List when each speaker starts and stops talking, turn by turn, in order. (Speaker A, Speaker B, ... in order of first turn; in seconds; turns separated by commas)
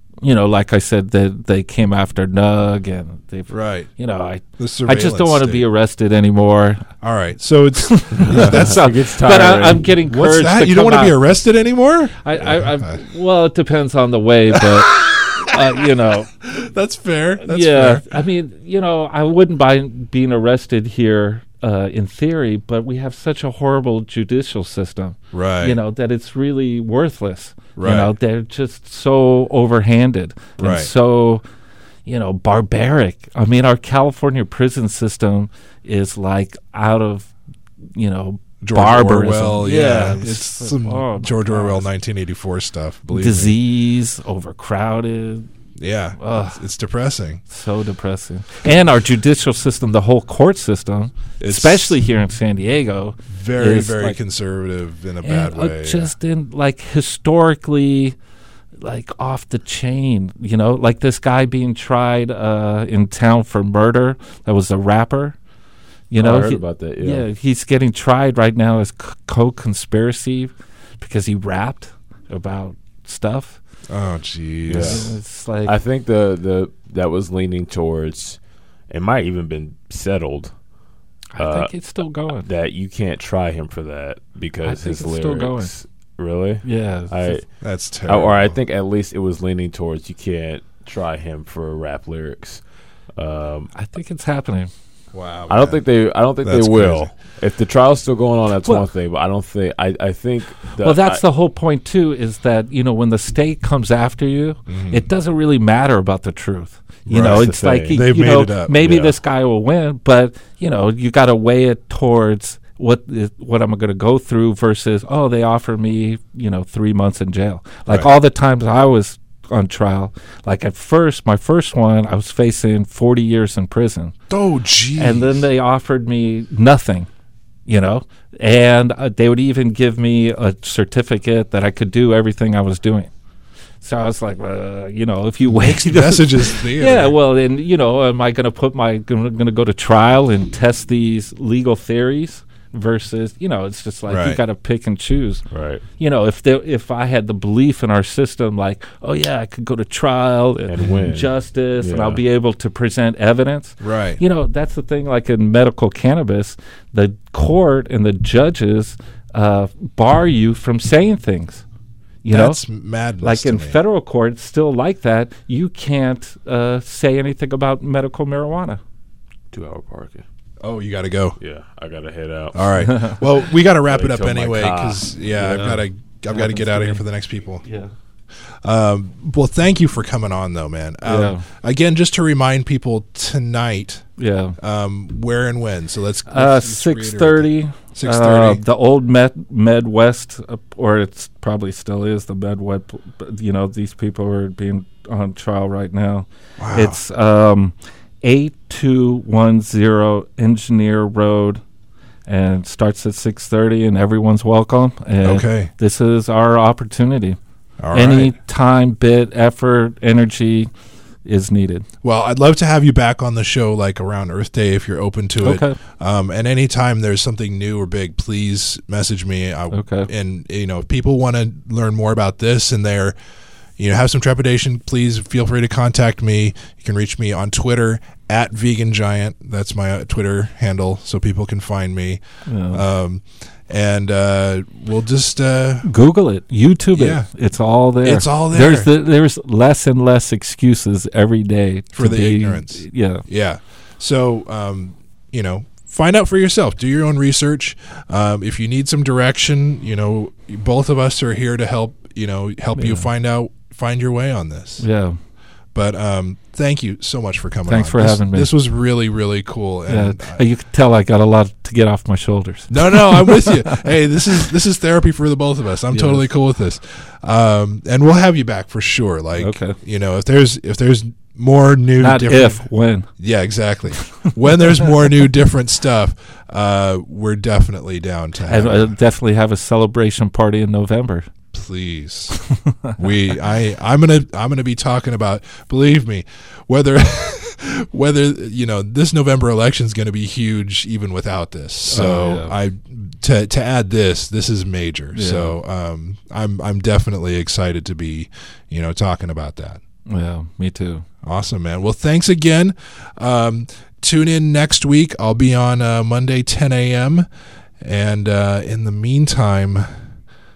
Speaker A: 0.2-6.8, Speaker B: 3.5-3.9, Speaker B: 4.6-5.6, Speaker B: 7.0-8.9, Speaker A: 7.8-11.2, Speaker C: 8.2-9.8, Speaker B: 10.1-13.0, Speaker A: 12.2-16.3, Speaker B: 14.5-15.8, Speaker B: 16.4-18.1, Speaker A: 17.4-31.4, Speaker B: 25.3-25.8, Speaker B: 27.8-28.1, Speaker B: 30.6-30.9, Speaker A: 32.0-37.3, Speaker A: 37.9-41.9, Speaker B: 38.6-43.5, Speaker A: 43.1-45.5, Speaker B: 45.8-47.4, Speaker A: 46.2-46.6, Speaker A: 47.5-54.2, Speaker B: 51.4-52.0, Speaker B: 53.3-56.1, Speaker A: 55.2-58.1, Speaker A: 58.8-65.3, Speaker A: 66.1-73.6, Speaker C: 66.2-67.2, Speaker B: 73.9-75.2, Speaker C: 74.7-75.1, Speaker A: 74.7-75.7, Speaker C: 75.6-78.4, Speaker C: 78.9-80.5, Speaker A: 81.3-82.5, Speaker C: 81.4-81.7, Speaker C: 82.4-87.5, Speaker A: 84.6-85.7, Speaker A: 86.6-87.4, Speaker B: 87.6-88.6, Speaker C: 88.1-92.6, Speaker C: 93.1-93.7, Speaker A: 93.7-94.7, Speaker B: 95.1-95.8, Speaker C: 95.5-101.2, Speaker B: 96.4-97.1, Speaker A: 100.8-124.1, Speaker B: 104.7-105.0, Speaker B: 107.1-108.8, Speaker C: 107.1-108.0, Speaker C: 108.8-109.1, Speaker B: 124.3-125.4, Speaker A: 125.0-127.1, Speaker A: 127.7-133.1, Speaker A: 133.8-145.4, Speaker B: 135.5-137.2, Speaker B: 144.1-144.4, Speaker C: 145.5-145.8, Speaker A: 146.0-161.6, Speaker C: 150.7-152.2, Speaker B: 153.8-154.2, Speaker A: 162.2-162.6, Speaker B: 162.3-163.8, Speaker A: 163.2-168.8, Speaker C: 169.5-170.2, Speaker B: 170.6-171.4, Speaker C: 171.4-172.8, Speaker B: 172.5-177.6, Speaker A: 172.8-173.2, Speaker C: 173.9-175.1, Speaker A: 175.4-177.0, Speaker A: 177.6-177.9, Speaker B: 178.6-184.1, Speaker A: 181.0-181.4, Speaker A: 184.2-184.6, Speaker B: 184.6-188.6, Speaker A: 186.3-201.6, Speaker B: 196.6-197.0, Speaker A: 202.3-207.4, Speaker B: 205.2-205.7, Speaker B: 207.8-208.3, Speaker A: 207.9-210.7, Speaker A: 211.2-211.9, Speaker B: 212.0-223.1, Speaker A: 215.4-215.8, Speaker A: 219.7-220.1, Speaker B: 223.8-235.9, Speaker A: 232.4-232.8, Speaker A: 235.8-243.2, Speaker B: 236.9-237.3, Speaker B: 238.0-238.9, Speaker B: 241.9-254.8, Speaker A: 252.7-253.1, Speaker A: 254.8-255.2, Speaker B: 255.7-260.4, Speaker A: 257.7-258.5, Speaker A: 259.9-263.8, Speaker B: 262.7-272.6, Speaker A: 265.9-266.2, Speaker A: 269.4-269.8, Speaker A: 272.0-273.1, Speaker B: 273.2-278.9, Speaker A: 278.5-281.3, Speaker B: 281.5-282.4, Speaker A: 282.5-282.9, Speaker B: 283.0-299.8, Speaker A: 291.9-292.5, Speaker A: 295.1-295.6, Speaker A: 300.1-301.0, Speaker B: 301.2-307.2, Speaker B: 307.8-309.9